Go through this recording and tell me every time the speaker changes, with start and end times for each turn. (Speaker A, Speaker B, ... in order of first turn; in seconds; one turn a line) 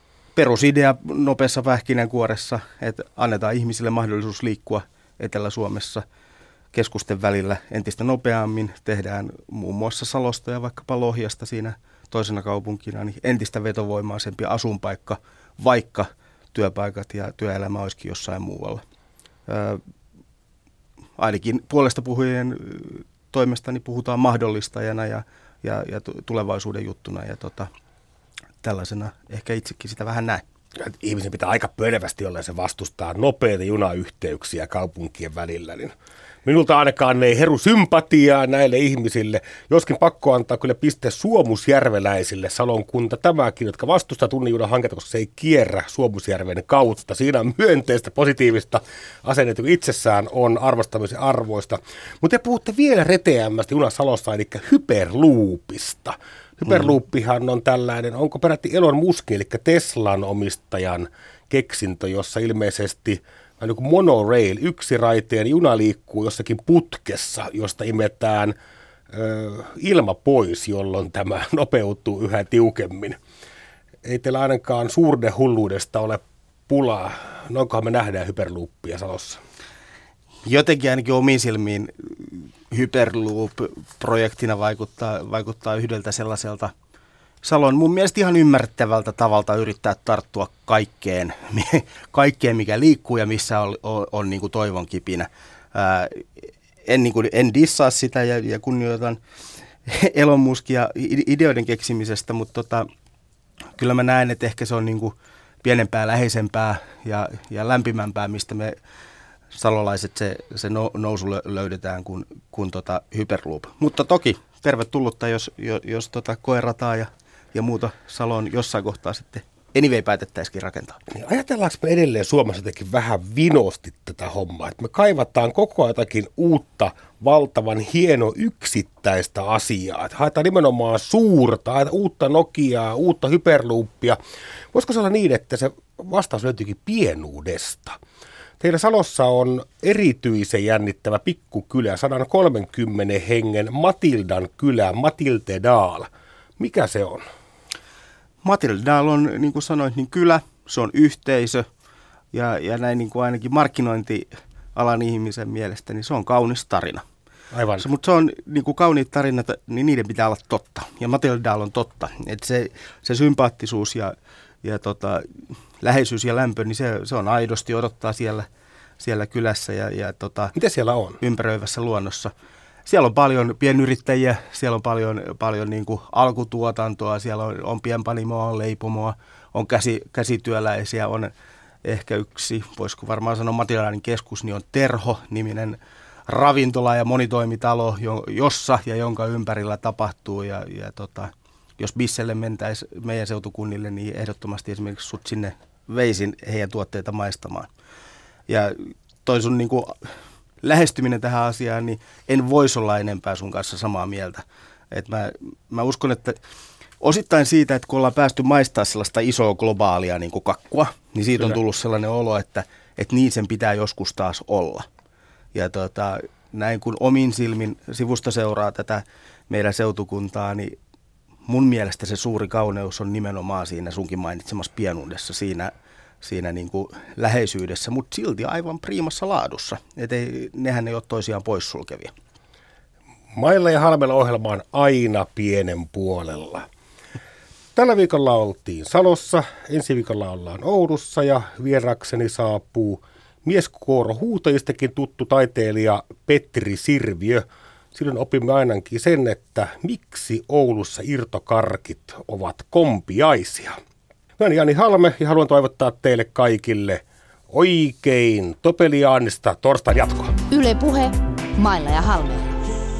Speaker A: 0.4-6.0
Speaker A: 6.7-18.8
Speaker A: 19.5-19.8
Speaker A: 21.2-27.7
Speaker A: 28.6-30.4
Speaker B: 30.8-35.9
Speaker B: 36.5-68.5
Speaker B: 69.1-73.2
Speaker B: 74.0-79.4
Speaker A: 80.5-86.7
Speaker A: 87.4-96.3
Speaker A: 96.9-99.2
Speaker A: 99.8-102.9
Speaker A: 103.8-108.8
Speaker A: 109.5-121.0
Speaker B: 121.1-134.2
Speaker B: 134.7-138.0
Speaker B: 138.6-147.2
Speaker A: 148.4-151.7
Speaker A: 152.3-157.0
Speaker B: 157.5-157.9
Speaker A: 157.8-168.5
Speaker A: 169.0-170.6
Speaker B: 170.6-171.2
Speaker A: 171.2-172.3
Speaker A: 172.9-181.3
Speaker A: 181.8-197.7
Speaker A: 198.5-200.1
Speaker A: 200.6-206.4
Speaker A: 207.0-214.9
Speaker A: 215.5-220.8
Speaker A: 221.5-232.1
Speaker B: 233.4-236.7
Speaker B: 237.8-253.8
Speaker B: 254.4-260.4
Speaker C: 260.5-262.6